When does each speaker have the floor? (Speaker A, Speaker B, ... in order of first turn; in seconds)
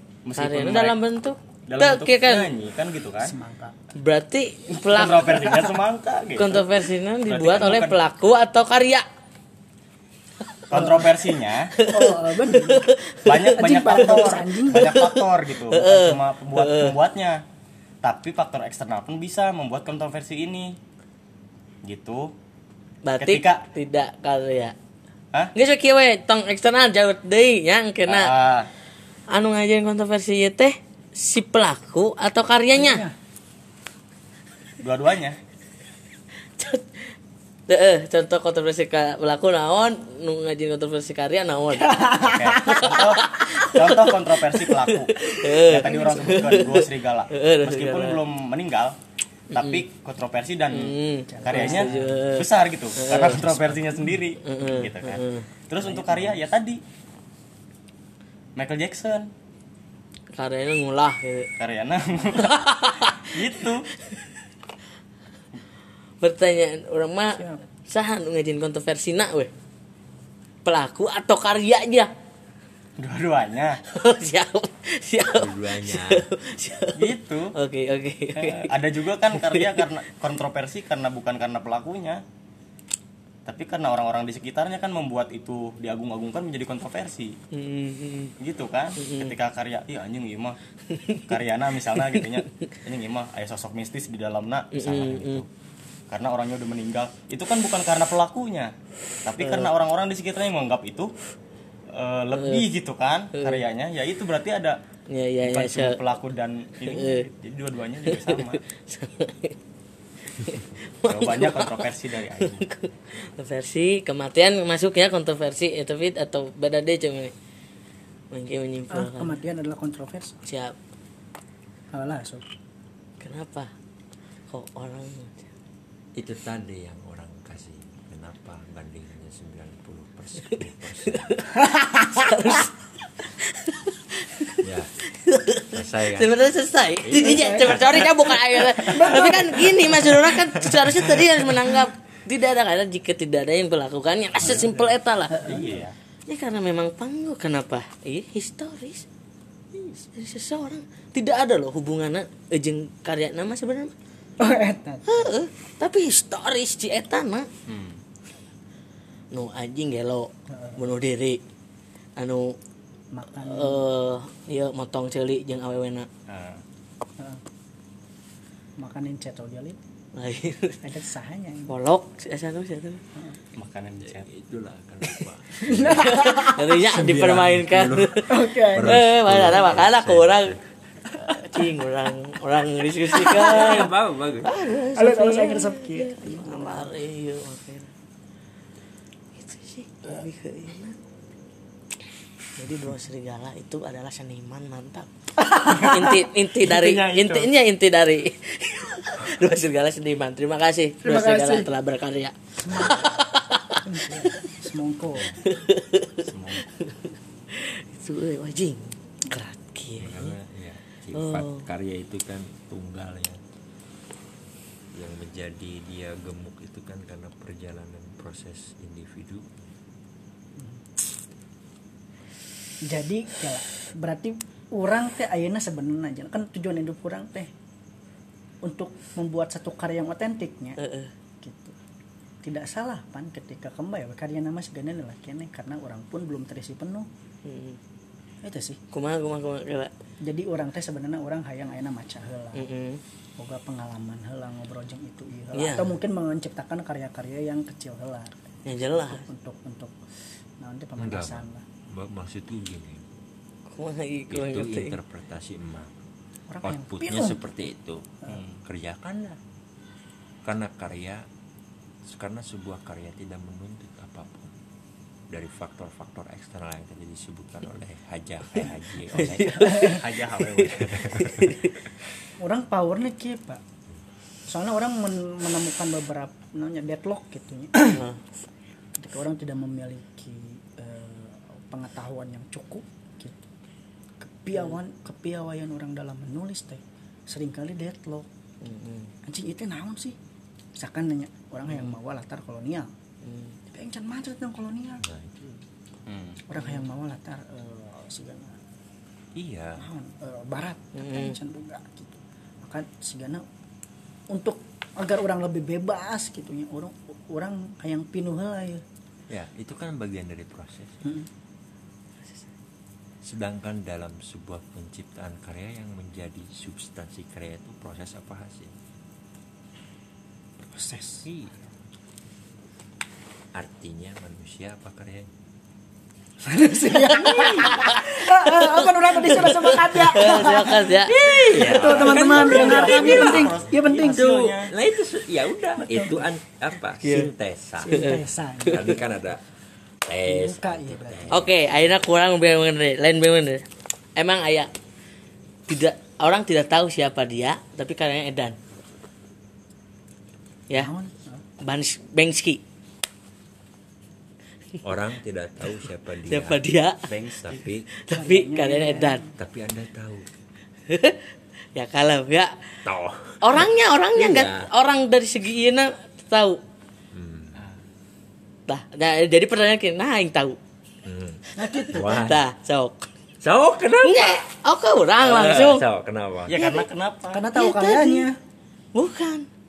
Speaker A: 0.2-0.9, 1.7-3.4, 4.9-6.7, 7.3-8.0, 10.7-11.7, 13.2-17.4, 18.0-20.8, 21.9-22.3, 23.2-23.6, 28.1-28.7, 34.8-35.4, 42.2-48.9, 49.5-56.8, 58.5-59.3, 61.6-63.9, 73.0-73.8, 77.0-77.5, 78.3-82.2, 83.5-87.3, 88.4-90.6, 91.2-95.5, 96.1-98.7, 99.2-101.1, 101.9-104.8, 105.4-108.6, 111.0-112.6, 145.4-145.9, 157.7-158.0, 166.3-166.6, 173.6-174.3, 196.6-197.5, 206.2-206.7, 258.3-258.6, 269.7-271.3, 296.1-296.4, 331.5-334.7, 376.5-377.5
Speaker B: 0.4-2.5, 4.0-5.7, 6.4-9.1, 11.8-17.0, 23.0-24.8, 25.5-28.3, 29.3-33.0, 36.6-37.1, 37.7-42.0, 42.6-48.2, 49.5-49.8, 50.7-53.7, 54.4-55.5, 60.3-61.5, 62.3-64.3, 66.2-69.5, 70.6-72.1, 73.9-78.7, 79.3-79.9, 87.5-88.3, 89.0-89.3, 90.9-91.2, 92.0-92.7, 94.7-95.4, 99.4-99.7, 102.3-102.7, 103.3-103.6, 105.1-106.0, 106.8-107.3, 108.1-109.6, 110.3-111.9, 112.4-117.3, 118.3-119.4, 120.4-120.7, 123.2-123.7, 124.5-125.5, 130.5-131.5, 132.2-132.7, 133.2-145.5, 146.3-149.1, 150.1-153.9, 155.1-157.5, 159.3-161.4, 162.2-162.6, 163.4-166.1, 170.1-170.8, 171.7-173.0, 175.9-180.6, 181.2-187.9, 189.3-191.0, 192.6-195.1, 195.6-204.5, 205.4-210.4, 211.1-211.7, 230.8-231.1, 237.4-237.8, 238.9-239.9, 242.5-243.0, 245.5-246.0, 248.7-249.3, 253.7-255.0, 269.1-271.8, 277.9-278.2, 288.6-289.1, 293.2-293.6, 296.6-296.9, 300.9-301.4, 327.1-331.2, 337.0-337.3, 337.9-338.2, 341.3-343.6, 344.2-344.7, 345.7-348.6, 351.6-352.6, 356.2-357.1, 358.0-359.2, 360.9-362.7, 363.4-366.6, 368.7-370.6, 371.7-373.1, 374.0-375.8, 376.5-376.9, 377.5-378.3, 378.9-379.5
Speaker C: 3.2-3.7, 5.3-5.7, 10.7-11.1, 11.8-12.9, 13.5-14.9, 32.7-33.1, 41.8-42.9, 45.8-46.8, 51.3-52.2, 55.8-56.3, 67.3-67.6, 118.9-120.4, 121.9-122.4, 131.5-132.6, 137.1-138.1, 138.7-140.4, 145.3-145.8, 154.4-155.3, 160.5-160.8, 163.1-163.8, 168.8-169.8, 170.8-171.7, 175.6-176.7, 178.3-179.0, 183.4-183.8, 184.8-186.9, 195.4-196.2, 201.0-201.7, 202.6-203.0, 203.8-205.4, 220.6-220.8, 222.8-227.5, 228.6-230.8, 231.4-231.8, 232.4-237.1, 238.4-238.8, 240.2-242.7, 243.4-248.3, 249.1-250.0, 250.6-251.6, 256.5-257.4, 269.5-270.0, 272.4-273.6, 274.5-278.0, 278.9-283.5, 284.2-288.3, 289.2-290.2, 290.8-292.9, 293.7-295.0, 296.5-298.6, 299.8-303.4, 304.3-308.8, 311.0-311.3, 320.6-321.3, 326.4-334.2, 335.8-336.3, 337.8-339.2, 340.2-341.5, 350.7-351.4, 358.1-359.4, 371.5-372.2, 377.3-378.4
Speaker D: 75.3-76.3, 126.1-131.2, 134.6-134.9, 135.7-136.4, 137.0-137.5, 144.4-145.0, 149.7-150.0, 174.1-180.7, 183.1-184.5, 202.7-202.9, 210.0-213.4, 214.9-219.7, 251.0-253.1, 254.3-255.9, 256.6-258.1, 258.6-259.4, 260.4-261.2, 262.0-264.6, 265.3-269.9, 270.8-271.4, 295.0-295.5, 299.3-299.9, 309.3-311.0, 313.2-318.7, 321.2-321.6, 323.5-325.3, 327.1-327.8, 331.1-339.4, 340.0-341.6, 354.8-357.9, 359.4-360.3, 362.8-364.7, 367.1-367.6, 371.0-372.4, 373.4-374.4, 375.2-376.6